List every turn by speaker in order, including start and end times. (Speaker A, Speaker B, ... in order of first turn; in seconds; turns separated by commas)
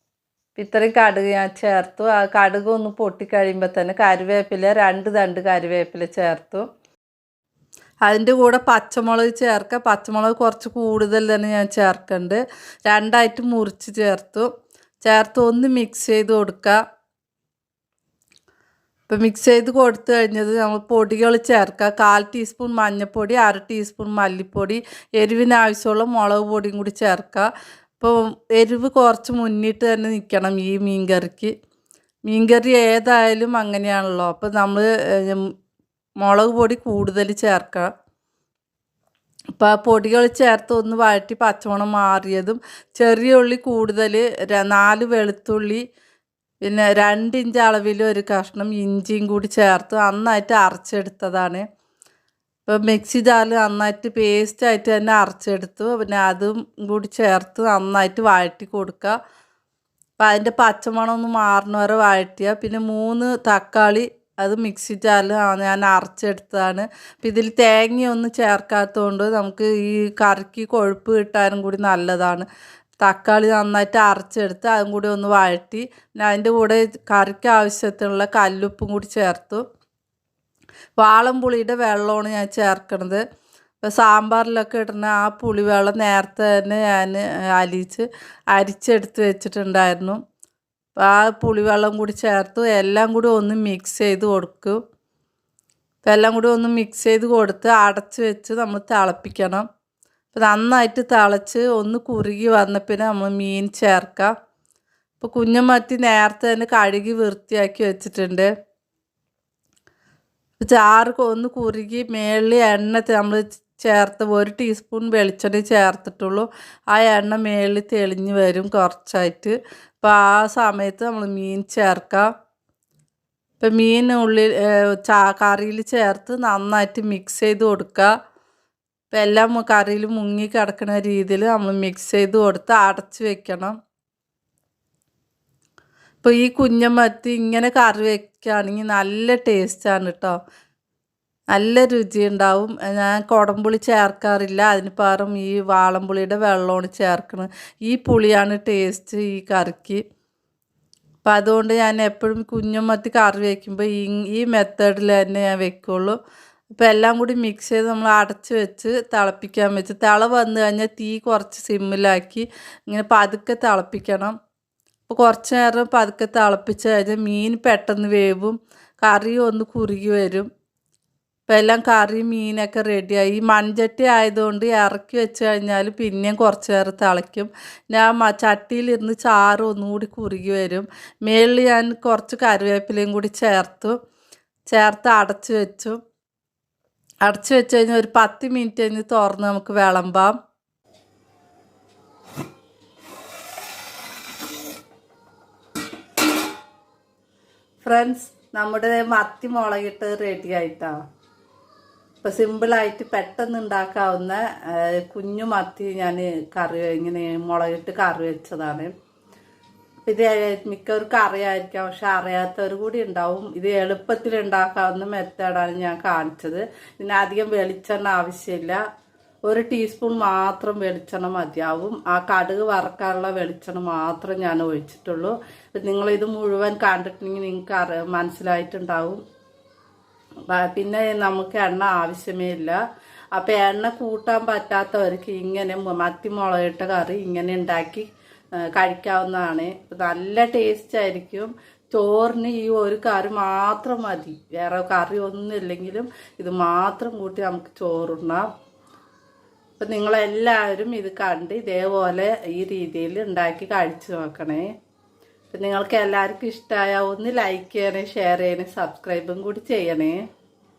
Speaker A: 0.6-6.7, Speaker A: 8.1-14.5, Speaker A: 15.0-16.8, Speaker A: 19.1-31.5, Speaker A: 32.3-35.5, Speaker A: 36.2-37.9, Speaker A: 39.6-45.8, Speaker A: 46.6-51.6, Speaker A: 52.7-59.2, Speaker A: 60.2-72.5, Speaker A: 73.0-79.6, Speaker A: 81.0-83.2, Speaker A: 83.8-90.2, Speaker A: 91.0-94.8, Speaker A: 96.0-99.7, Speaker A: 100.3-104.3, Speaker A: 105.2-108.5, Speaker A: 110.6-122.3, Speaker A: 123.6-128.1, Speaker A: 129.1-133.8, Speaker A: 136.2-140.4, Speaker A: 141.5-150.0, Speaker A: 151.2-156.2, Speaker A: 156.7-164.3, Speaker A: 165.1-170.5, Speaker A: 171.5-183.9, Speaker A: 184.7-186.0, Speaker A: 187.2-190.3, Speaker A: 197.8-201.0, Speaker A: 202.2-208.9, Speaker A: 210.1-218.8, Speaker A: 219.5-229.2, Speaker A: 230.5-232.8, Speaker A: 233.3-238.1, Speaker A: 238.6-248.4, Speaker A: 249.8-254.7, Speaker A: 255.5-260.2